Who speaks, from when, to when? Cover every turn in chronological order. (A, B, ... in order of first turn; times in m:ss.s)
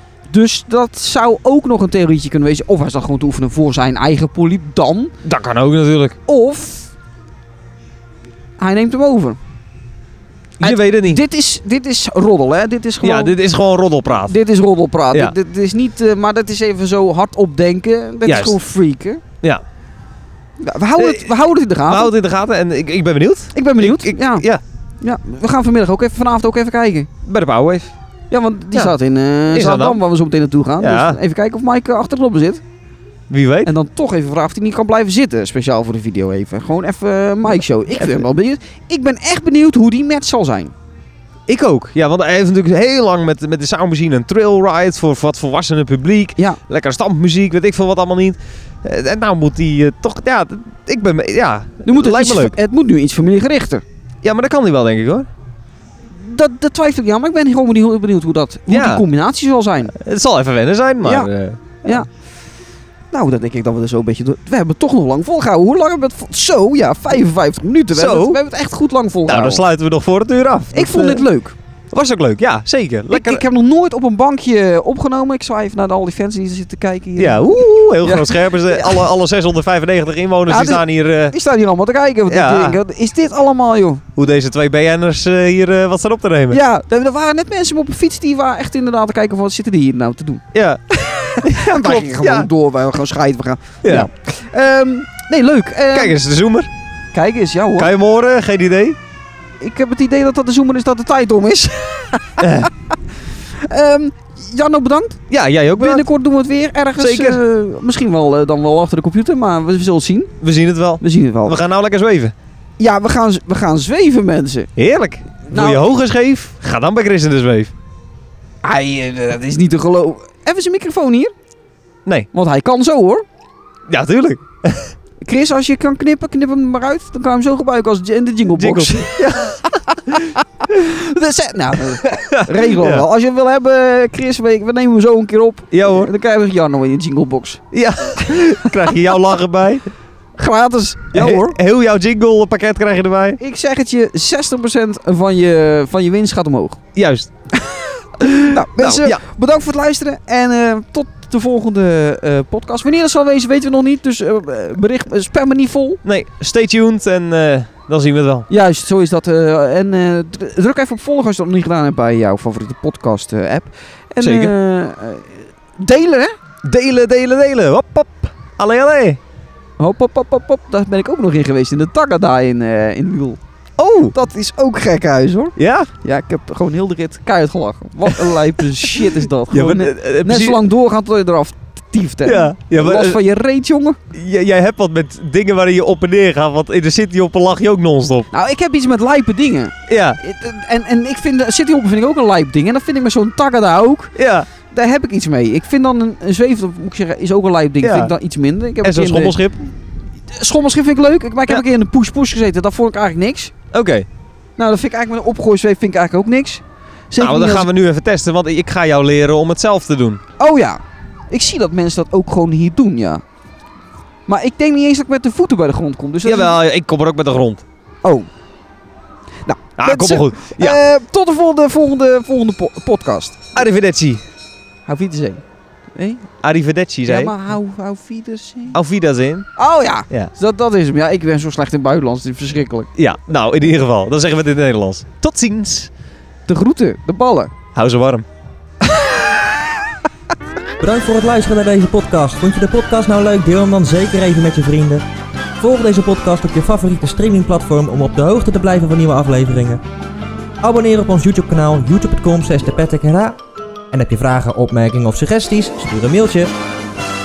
0:00.3-0:05.1 A
0:05.2-0:06.2 B
0:06.2-0:06.9 A
0:08.6-0:09.4 A
0:10.6-0:11.2 B
0:10.6-0:13.4 A
0:13.0-0:14.4 B
0:14.3-0:19.2 A
0:18.2-0:18.6 B
0:20.6-0:22.1 A
0:21.0-0:24.6 B
0:23.5-0:24.5 A
0:25.0-0:27.1 A
0:27.2-0:27.9 B
0:28.3-0:32.6 A
0:29.5-0:30.0 B
0:30.8-0:31.2 B
0:33.3-0:33.7 B
0:33.6-0:40.7 A
0:37.9-0:38.3 B
0:41.5-0:52.5 B
0:51.8-0:53.8 A
0:54.2-0:55.3 B
0:56.1-0:59.9 A
0:58.7-0:59.0 B
0:59.9-1:02.0 B
1:01.0-1:01.3 A
1:03.1-1:09.6 A
1:07.9-1:08.4 B
1:09.3-1:11.3 B
1:10.7-1:11.5 A
1:11.9-1:13.4 B
1:13.1-1:19.1 A
1:17.2-1:21.3 B
1:20.5-1:24.0 A
1:22.3-1:22.8 B
1:24.2-1:26.6 B
1:26.5-1:30.4 A
1:30.5-1:32.5 B
1:31.4-1:36.2 A
1:33.8-1:34.1 B
1:35.9-1:36.7 B
1:37.1-1:37.9 A
1:37.8-1:39.0 B
1:39.6-1:42.7 A
1:42.4-1:42.7 B
1:43.5-1:45.2 A
1:45.3-1:46.1 B
1:45.8-1:50.3 A
1:47.0-1:47.4 B
1:50.4-1:52.3 B
1:51.0-1:51.6 A
1:52.8-1:54.7 A
1:54.8-1:57.7 B
1:55.5-1:55.9 A
1:58.6-2:01.3 A
2:02.3-2:03.2 A
2:03.9-2:04.9 B
2:05.2-2:17.6 A
2:08.6-2:10.2 B
2:12.0-2:13.0 B
2:15.7-2:16.1 B
2:17.7-2:19.8 B
2:18.2-2:18.6 A
2:20.4-2:21.6 A
2:21.1-2:23.4 B
2:23.4-2:26.8 A
2:26.9-2:29.2 B
2:28.3-2:36.0 A
2:36.0-2:38.5 B
2:38.5-2:46.3 A
2:44.2-2:44.5 B
2:46.6-2:49.2 B
2:49.8-2:53.4 A
2:53.8-2:54.1 B
2:54.1-3:04.0 A
2:55.6-2:55.9 B
2:58.0-3:00.6 B
3:02.2-3:03.2 B
3:04.1-3:08.3 B
3:08.3-3:14.2 A
3:09.9-3:10.2 B
3:14.2-3:14.5 B
3:14.7-3:19.4 A
3:17.8-3:18.1 B
3:18.8-3:19.6 B
3:20.3-3:23.5 A
3:23.7-3:24.1 B
3:24.6-3:27.7 A
3:27.2-3:30.2 B
3:30.4-3:33.2 A
3:34.3-3:36.6 A
3:36.2-3:37.6 B
3:39.4-3:43.6 A
3:39.8-3:40.8 B
3:43.5-3:44.2 B
3:44.8-3:45.4 A
3:45.9-3:46.3 A
3:46.4-3:47.3 B
3:47.0-3:48.8 A
3:48.7-3:49.5 B
3:49.6-3:52.9 A
3:52.9-3:55.9 B
3:56.5-3:57.5 A
3:57.7-3:58.2 B
3:58.9-3:59.4 A
4:00.8-4:05.0 C
4:05.6-4:09.8 C
4:10.6-4:13.4 C
4:13.9-4:16.5 C